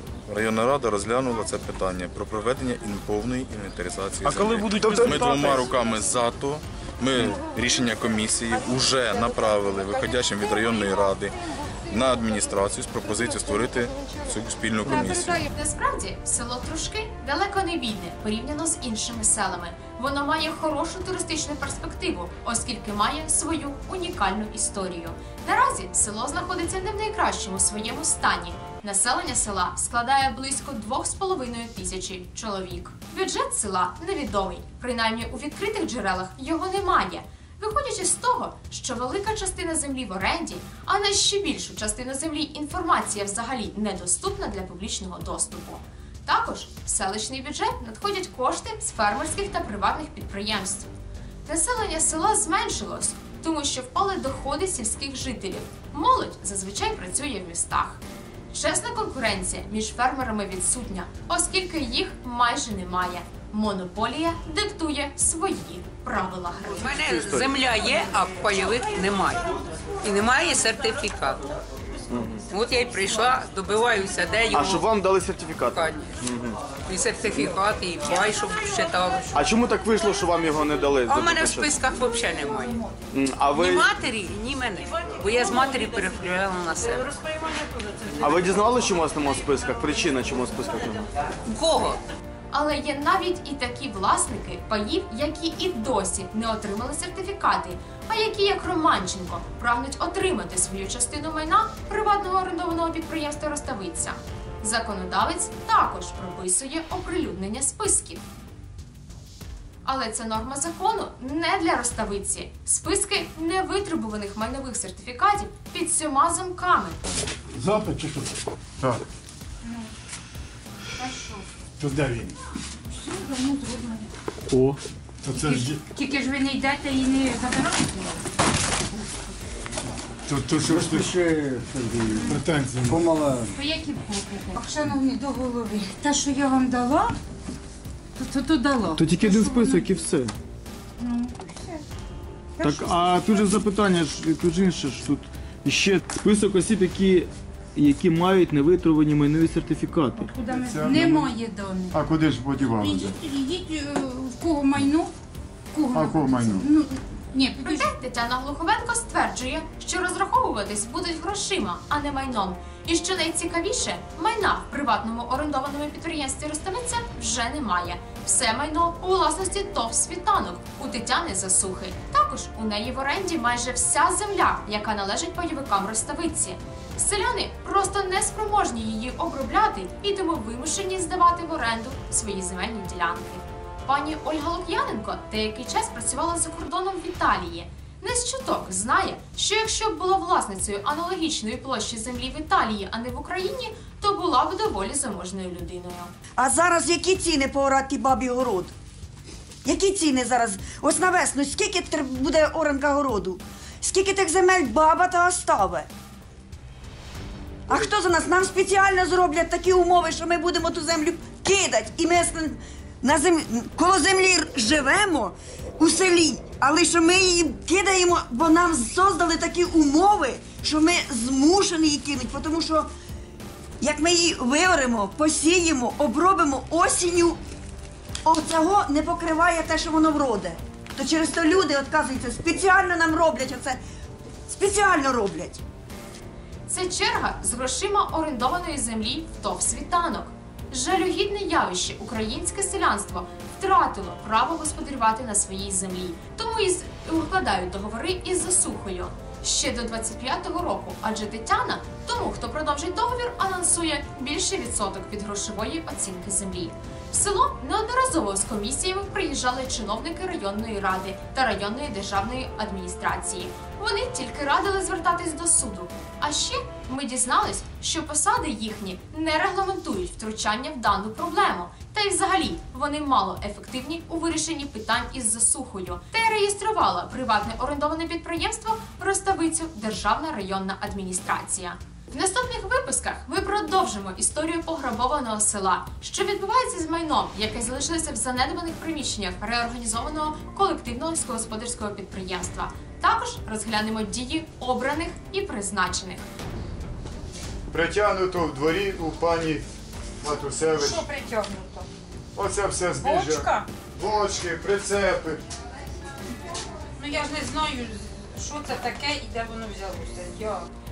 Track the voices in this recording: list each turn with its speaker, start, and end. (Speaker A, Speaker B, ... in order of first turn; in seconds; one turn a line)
Speaker A: 0.2-15.4
Speaker B: 4.2-5.5
Speaker C: 4.8-5.7
Speaker D: 15.5-50.9
Speaker D: 51.5-67.0
Speaker E: 66.8-71.5
Speaker C: 67.0-67.5
Speaker C: 72.1-72.4
Speaker E: 72.5-74.9
Speaker C: 74.5-76.6
Speaker E: 75.7-76.2
Speaker E: 76.7-79.4
Speaker C: 79.3-81.8
Speaker E: 81.1-82.9
Speaker C: 83.1-83.9
Speaker E: 83.5-87.2
Speaker C: 88.2-91.1
Speaker E: 91.5-92.0
Speaker D: 92.5-108.2
Speaker D: 109.8-117.0
Speaker F: 117.6-118.3
Speaker G: 121.0-121.5
Speaker F: 121.8-122.3
Speaker G: 122.9-124.1
Speaker G: 125.3-128.2
Speaker F: 125.4-125.7
Speaker H: 130.3-131.1
Speaker F: 130.4-133.5
Speaker H: 132.6-133.0
Speaker G: 133.5-137.2
Speaker G: 138.2-139.9
Speaker B: 139.0-140.3
Speaker G: 141.0-141.8
Speaker G: 142.6-143.6
Speaker B: 142.6-150.3
Speaker G: 150.2-152.0
Speaker H: 150.5-151.3
Speaker H: 151.9-153.1
Speaker G: 152.6-155.1
Speaker G: 155.7-157.9
Speaker H: 155.9-156.7
Speaker D: 157.6-196.1
Speaker I: 196.4-198.7
Speaker I: 199.7-205.9
Speaker I: 207.7-222.9
Speaker I: 223.8-227.4
Speaker I: 228.2-233.8
Speaker I: 234.5-235.6
Speaker D: 236.7-296.3
Speaker H: 297.7-299.7
Speaker H: 300.2-301.0
Speaker G: 300.8-301.9
Speaker H: 302.4-305.4
Speaker G: 303.0-303.7
Speaker G: 307.0-310.7